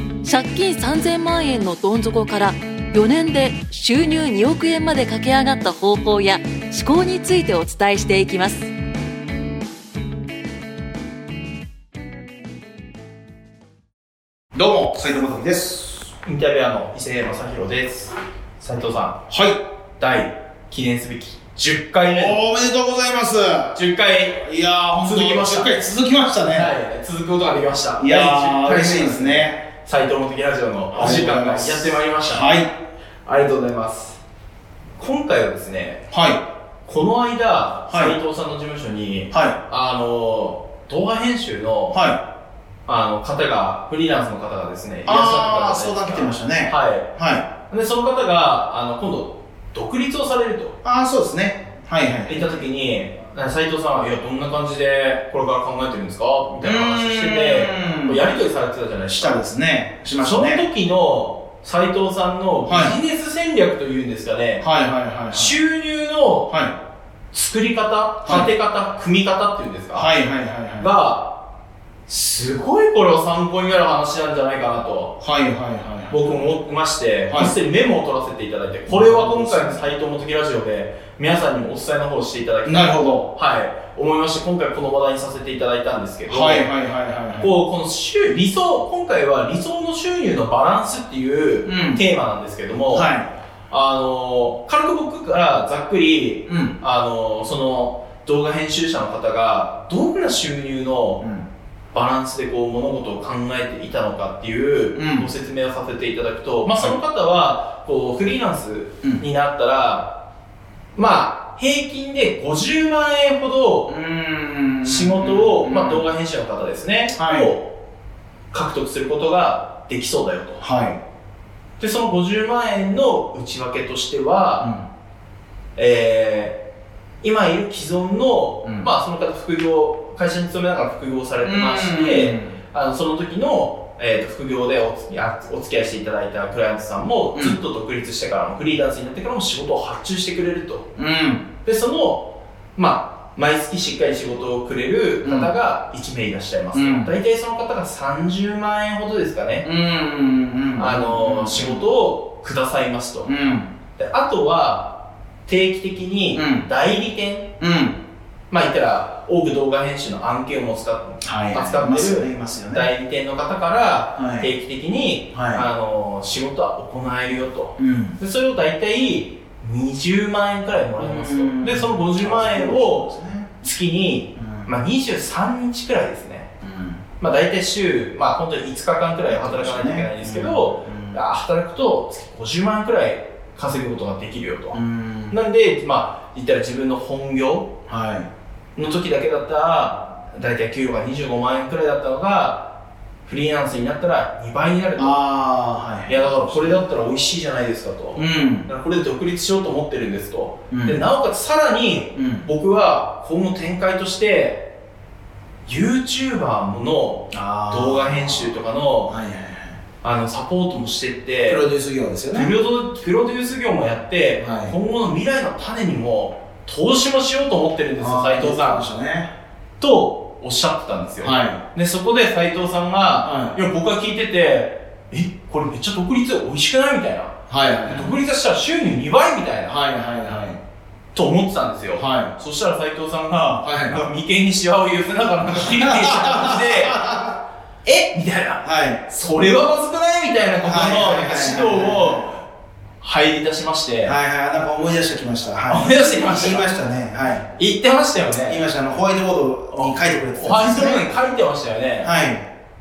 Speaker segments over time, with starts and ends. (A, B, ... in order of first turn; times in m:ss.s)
0:00.2-0:08.7 A
0:14.5-0:16.1 B
0:16.2-0:19.2 C
0:19.3-0:19.6 B
0:20.0-0:22.4 C
0:22.0-0:23.8 B
0:23.7-0:25.7 C
0:24.4-0:26.7 B
0:26.5-0:32.6 C
0:28.0-0:29.6 B
0:30.9-0:32.7 B
0:33.2-0:34.2 C
0:35.0-0:36.0 C
0:36.1-0:36.4 B
0:36.8-0:42.0 C
0:37.9-0:38.2 B
0:39.3-0:39.6 B
0:41.9-0:42.2 B
0:42.8-0:47.1 C
0:45.0-0:47.5 B
0:47.7-0:50.8 C
0:50.8-0:52.6 B
0:52.3-0:59.4 C
0:56.6-0:58.2 B
0:59.1-1:00.6 B
1:00.2-1:04.7 C
1:02.7-1:03.0 B
1:04.6-1:05.6 B
1:05.3-1:06.6 C
1:06.5-1:06.7 B
1:07.3-1:10.1 C
1:08.2-1:08.5 B
1:09.9-1:10.9 B
1:10.8-1:11.4 C
1:12.1-1:15.2 C
1:15.2-1:16.5 B
1:16.1-1:26.7 C
1:18.9-1:19.8 B
1:22.6-1:23.3 B
1:26.3-1:27.6 B
1:27.4-1:33.1 C
1:31.6-1:32.0 B
1:32.9-1:33.3 B
1:33.7-1:41.2 C
1:36.4-1:36.8 B
1:41.2-1:41.4 B
1:41.9-1:50.1 C
1:44.9-1:45.3 B
1:50.9-1:53.9 C
1:53.9-1:56.0 B
1:54.8-1:57.7 C
1:57.1-1:57.5 B
1:58.5-2:00.6 C
2:00.6-2:01.0 B
2:01.8-2:04.7 C
2:04.6-2:04.8 B
2:05.8-2:06.6 C
2:07.2-2:20.9 C
2:08.6-2:08.9 B
2:11.4-2:12.6 B
2:21.0-2:21.5 B
2:21.6-2:29.7 C
2:25.2-2:25.5 B
2:26.7-2:27.1 B
2:29.6-2:31.9 B
2:30.8-2:33.3 C
2:33.2-2:33.7 B
2:34.0-2:37.5 C
2:36.3-2:36.7 B
2:37.6-2:38.0 B
2:38.5-2:56.5 C
2:41.2-2:42.9 B
2:44.2-2:44.5 B
2:45.3-2:45.6 B
2:47.8-2:48.2 B
2:51.0-2:53.5 B
2:54.4-2:54.7 B
2:56.6-2:57.0 B
2:57.2-3:04.8 C
2:59.3-3:01.2 B
3:04.7-3:05.4 B
3:05.3-3:07.7 C
3:07.9-3:08.3 B
3:08.8-3:15.2 C
3:15.0-3:16.8 B
3:16.1-3:24.7 C
3:18.1-3:18.7 B
3:20.7-3:21.0 B
3:22.1-3:22.5 B
3:25.7-3:29.2 C
3:27.3-3:29.8 B
3:30.0-3:31.6 C
3:31.4-3:32.5 B
3:32.3-3:38.9 C
3:34.4-3:34.7 B
3:38.0-3:39.3 B
3:39.8-3:47.3 C
3:41.2-3:41.6 B
3:43.2-3:43.6 B
3:47.5-3:48.2 B
3:47.8-3:49.8 C
3:49.6-3:50.6 B
3:51.1-3:57.1 C
3:51.9-3:52.3 B
3:53.6-3:54.1 B
3:55.5-3:57.4 B
3:57.8-4:02.4 C
3:58.6-3:59.1 B
4:00.6-4:02.4 B
4:03.0-4:04.2 C
4:04.0-4:07.5 B
4:05.7-4:06.7 C
4:07.6-4:08.7 C
4:08.4-4:11.2 B
4:09.7-4:12.1 C
4:12.0-4:12.5 B